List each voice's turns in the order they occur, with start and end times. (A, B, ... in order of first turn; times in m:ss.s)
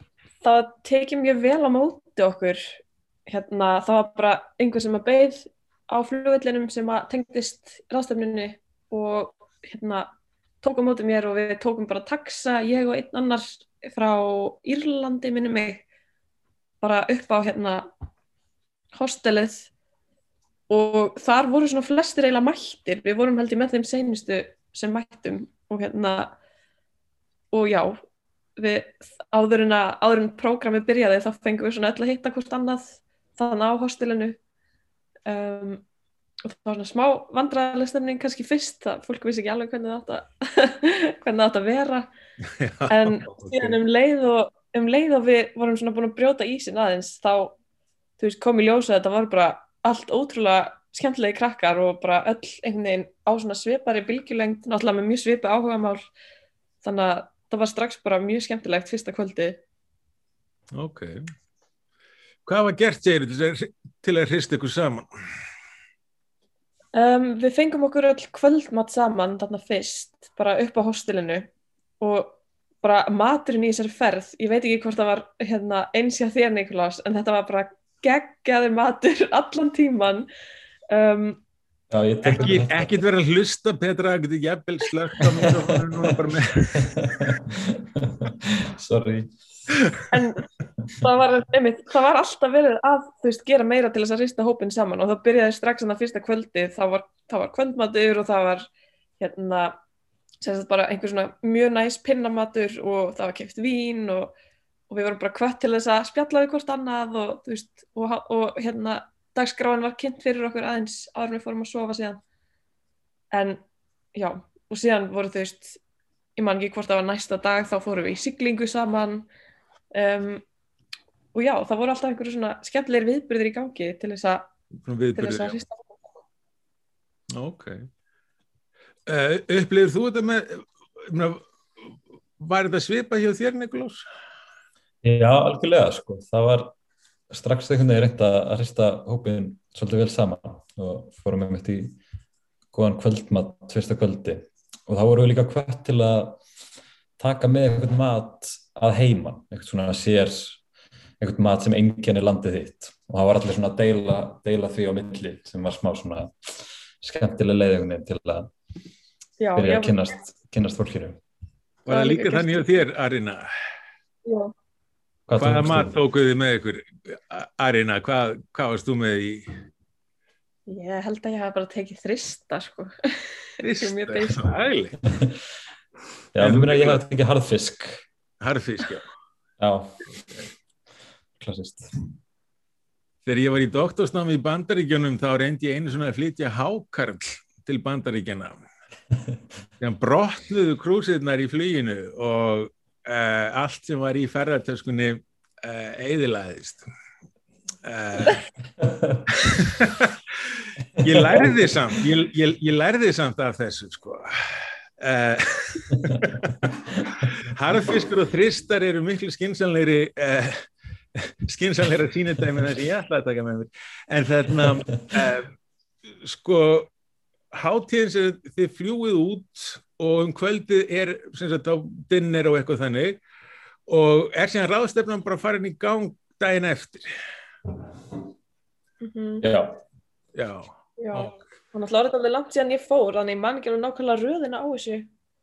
0:00.4-0:10.1 A
0:10.6-0:15.8 A
0:16.8-0:17.9 A
0:19.0-0:19.7 A
0:20.7-0:26.4 A
0:27.5-0:28.0 A
0:28.6-0:34.4 A
0:35.3-0:35.8 A
0:36.5-0:42.1 A
0:42.6-0:43.8 B
0:42.9-0:47.6 A
0:48.2-0:56.1 A
0:56.8-0:59.6 A
1:00.7-1:01.2 B
1:02.5-1:05.1 B
1:07.0-1:11.5 A
1:12.0-1:20.3 A
1:20.9-1:21.4 A
1:21.9-1:23.0 C
1:22.2-1:26.9 B
1:25.2-1:26.2 C
1:26.7-1:29.3 C
1:30.1-1:30.4 A
1:31.0-1:38.7 A
1:39.2-1:39.8 A
1:40.4-1:44.3 A
1:44.9-1:52.2 A
1:53.3-1:53.6 A
1:54.2-1:55.8 A
1:56.4-1:59.3 A
1:59.9-2:00.4 A
2:01.3-2:04.5 A
2:04.8-2:05.6 B
2:05.2-2:06.1 A
2:07.3-2:07.9 B
2:09.1-2:11.4 B
2:12.4-2:14.0 B
2:15.0-2:16.8 C
2:17.3-2:22.0 C
2:22.7-2:26.4 C
2:27.2-2:30.6 C
2:31.2-2:36.3 C
2:37.0-2:38.5 C
2:39.4-2:40.1 A
2:39.6-2:41.2 C
2:41.9-2:43.5 B
2:41.9-2:42.8 A
2:44.3-2:44.5 A
2:45.3-2:46.0 C
2:45.4-2:49.5 B
2:50.7-2:52.9 A
2:53.6-2:54.5 A
2:53.6-2:55.0 B
2:56.3-2:58.0 C
2:56.4-2:57.0 B
2:58.4-2:59.1 B
2:59.6-3:00.0 C
3:01.4-3:01.9 C
3:03.3-3:08.6 B
3:09.8-3:16.8 B
3:17.8-3:18.4 B
3:18.8-3:19.2 C
3:19.4-3:30.6 B
3:21.0-3:22.0 C
3:31.2-3:35.5 B
3:36.2-3:36.9 B
3:37.5-3:43.2 B
3:43.9-3:47.1 B
3:49.0-3:49.5 A
3:49.4-3:49.8 C
3:50.4-3:51.4 B
3:51.0-3:55.1 A